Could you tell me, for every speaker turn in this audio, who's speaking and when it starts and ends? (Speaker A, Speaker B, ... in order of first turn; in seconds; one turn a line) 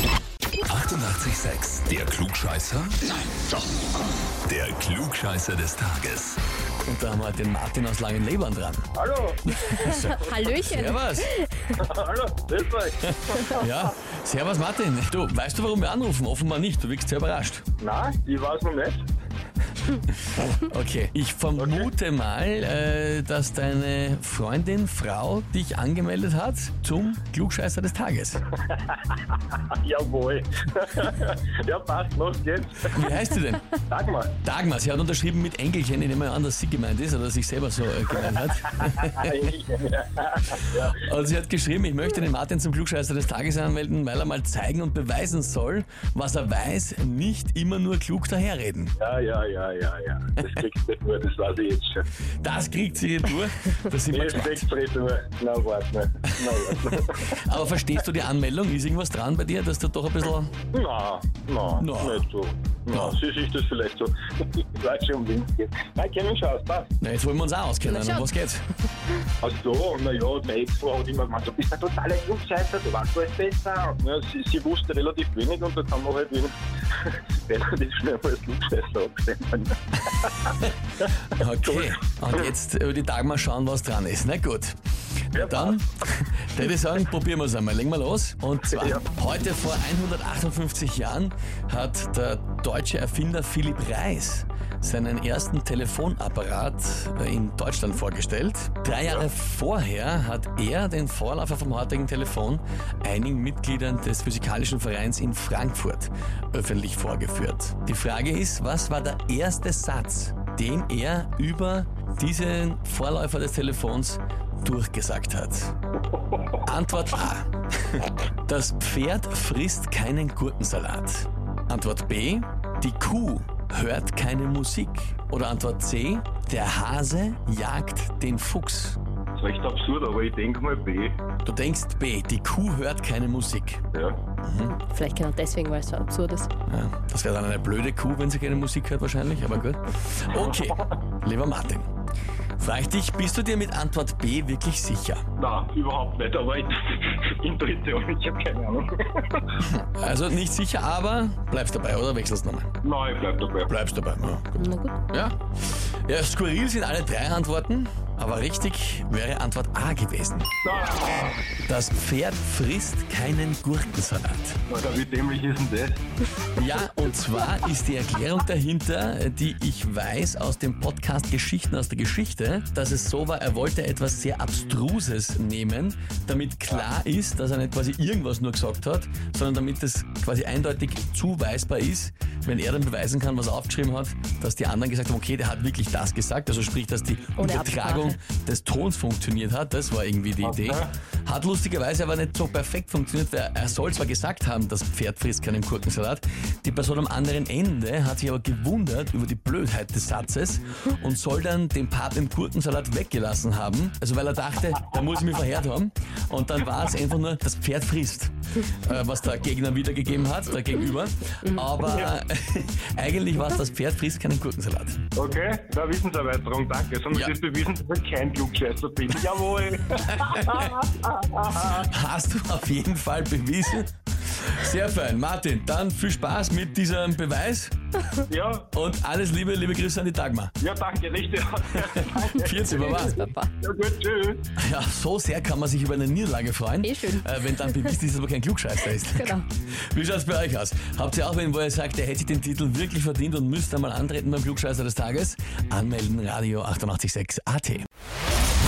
Speaker A: 0.7-3.0
Speaker A: 4.5-6.4
Speaker B: 6.8-8.9
Speaker C: 9.0-10.5
Speaker B: 9.5-11.3
Speaker D: 9.8-11.7
Speaker C: 11.7-13.8
Speaker B: 13.0-17.7
Speaker C: 17.8-19.0
Speaker B: 20.1-28.5
Speaker C: 21.6-21.9
Speaker C: 28.7-33.1
Speaker B: 32.9-33.8
Speaker C: 33.9-34.4
Speaker B: 34.4-39.3
Speaker C: 38.7-41.0
Speaker B: 40.7-49.0
Speaker C: 49.0-52.0
Speaker B: 52.4-54.7
Speaker C: 54.1-57.6
Speaker B: 56.3-60.5
Speaker C: 60.7-66.9
Speaker B: 61.8-62.2
Speaker B: 62.9-63.2
Speaker B: 67.0-68.7
Speaker D: 67.9-68.3
Speaker C: 69.4-82.5
Speaker B: 80.5-80.8
Speaker B: 81.3-84.8
Speaker B: 85.3-115.8
Speaker C: 85.3-85.9
Speaker C: 88.7-89.1
Speaker B: 116.6-129.0
Speaker C: 129.4-131.2
Speaker B: 131.4-133.9
Speaker C: 133.9-134.2
Speaker B: 134.4-134.8
Speaker D: 134.8-136.5
Speaker B: 136.7-141.9
Speaker C: 140.4-140.7
Speaker B: 142.6-145.2
Speaker C: 145.4-149.4
Speaker B: 149.6-152.7
Speaker C: 152.8-153.7
Speaker B: 153.7-160.5
Speaker D: 154.6-155.0
Speaker C: 160.7-161.4
Speaker B: 161.7-164.6
Speaker C: 164.7-166.0
Speaker B: 166.5-215.0
Speaker D: 187.4-188.2
Speaker C: 190.4-190.9
Speaker C: 211.8-212.1
Speaker C: 215.2-221.9
Speaker B: 220.0-220.8
Speaker B: 221.5-227.8
Speaker C: 228.3-228.7
Speaker B: 228.7-230.6
Speaker C: 230.6-234.4
Speaker B: 232.2-233.2
Speaker D: 232.7-233.5
Speaker B: 234.6-247.9
Speaker D: 236.8-237.8
Speaker D: 239.0-239.4